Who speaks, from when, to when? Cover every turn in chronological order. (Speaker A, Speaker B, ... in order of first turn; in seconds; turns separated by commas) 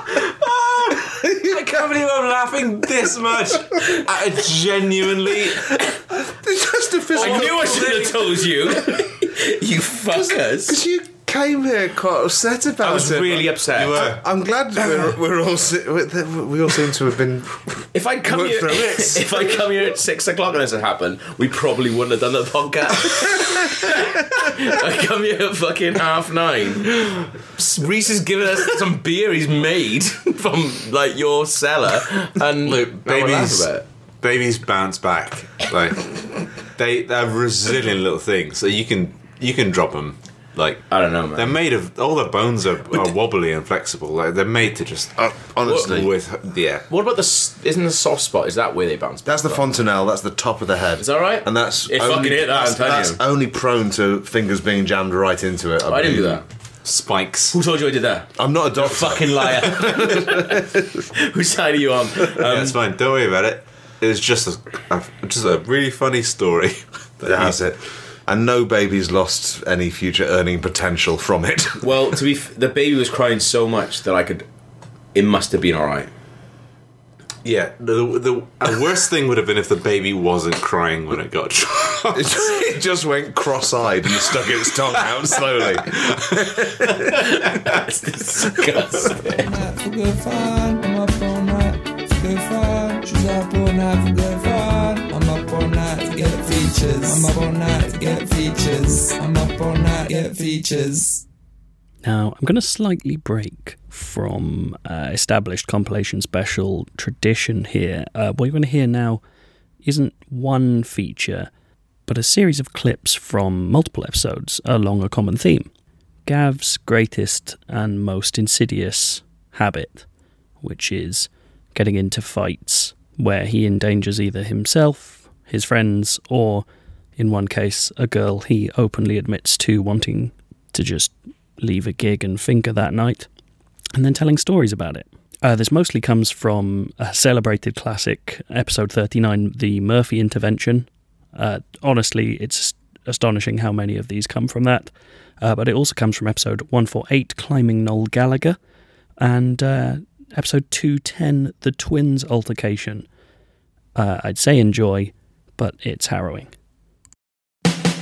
Speaker A: 0.2-5.8, Speaker B: 1.0-1.9, Speaker B: 6.2-8.1, Speaker A: 7.1-8.2, Speaker C: 7.2-10.8, Speaker B: 10.1-19.6, Speaker C: 12.8-14.1, Speaker A: 13.7-14.2, Speaker C: 17.9-33.9, Speaker A: 32.7-45.2, Speaker C: 40.9-41.6, Speaker B: 45.2-46.1, Speaker C: 45.7-46.1, Speaker A: 45.8-46.9, Speaker C: 46.9-49.7, Speaker B: 49.3-56.4, Speaker C: 51.0-53.2, Speaker C: 55.9-56.4, Speaker A: 56.0-57.5, Speaker C: 57.5-62.8, Speaker B: 58.4-59.8, Speaker A: 59.5-60.3, Speaker A: 62.3-67.6, Speaker B: 67.3-71.9, Speaker C: 71.8-74.5, Speaker C: 75.1-76.1, Speaker A: 77.4-82.5, Speaker B: 82.1-87.1, Speaker A: 85.0-86.9, Speaker C: 87.1-89.7, Speaker D: 89.5-101.2, Speaker E: 102.0-109.2, Speaker E: 109.8-111.5, Speaker E: 112.1-115.7, Speaker E: 116.2-120.1, Speaker E: 120.6-133.3, Speaker E: 133.9-148.6, Speaker E: 149.2-153.1, Speaker E: 153.9-156.5